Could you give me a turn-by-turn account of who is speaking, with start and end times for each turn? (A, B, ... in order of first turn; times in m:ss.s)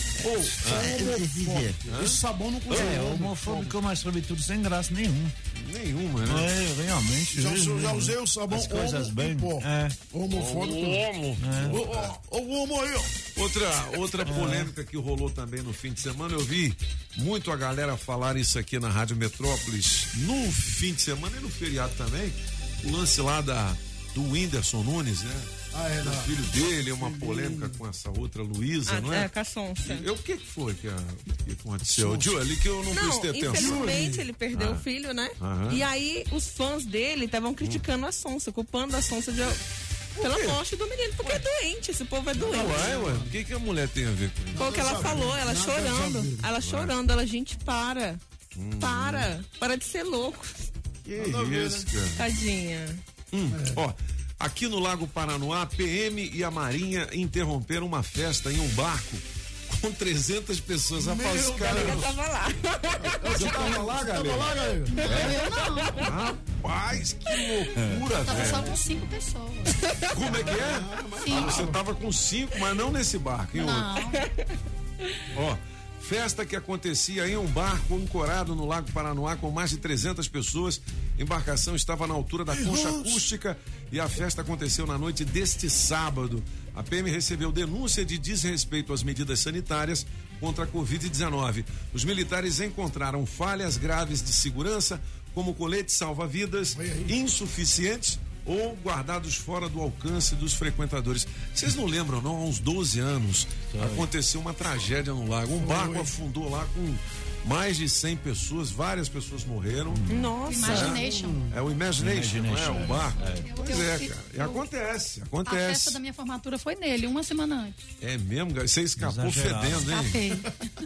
0:00.2-0:03.7 A
0:00.6-0:01.8 B
0:01.9-0:03.0 C
0:02.7-0:05.3 B
0:05.6-0:06.5 C
0:06.3-0:10.0 B
0:07.4-0:11.1 A
0:10.3-0:12.1 C
0:11.4-0:11.8 B
0:11.7-0:13.1 A
0:13.4-0:25.5 C
0:14.2-0:14.7 B
0:25.7-0:27.8 A
0:26.0-0:29.3 C
0:28.9-0:30.1 D
0:29.8-0:34.8 C
0:31.9-0:32.3 A
0:32.9-0:39.6 D
0:33.5-0:34.2 A
0:35.4-0:35.8 C
0:40.2-0:40.6 C
0:40.2-0:43.0 D
0:42.4-0:45.2 C
0:42.5-0:43.3 A
0:44.6-0:46.5 A
0:44.6-0:48.2 D
0:46.6-0:46.9 C
0:48.6-0:49.3 C
0:48.8-0:50.7 D
0:51.1-0:52.2 C
0:51.2-0:51.9 A
0:52.2-0:53.0 D
0:53.3-1:02.1 C
0:53.5-0:53.8 A
1:01.0-1:02.0 A
1:01.6-1:03.6 D
1:03.2-1:05.3 A
1:03.2-1:05.4 C
1:05.0-1:06.1 E
1:05.1-1:06.1 D
1:06.0-1:08.8 C
1:08.2-1:09.8 E
1:10.1-1:13.9 C
1:10.3-1:11.8 A
1:11.2-1:11.6 E
1:13.5-1:14.2 E
1:15.3-1:50.1 C
1:22.5-1:23.2 A
1:36.7-1:37.1 A
1:43.7-1:44.1 B
1:45.6-1:46.1 A
1:50.1-1:51.0 D
1:50.5-1:51.5 E
1:50.6-1:56.0 C
1:52.0-1:53.5 B
1:53.4-1:54.7 E
1:55.4-1:57.8 E
1:58.0-2:00.2 C
1:59.0-2:00.0 B
1:59.9-2:00.5 E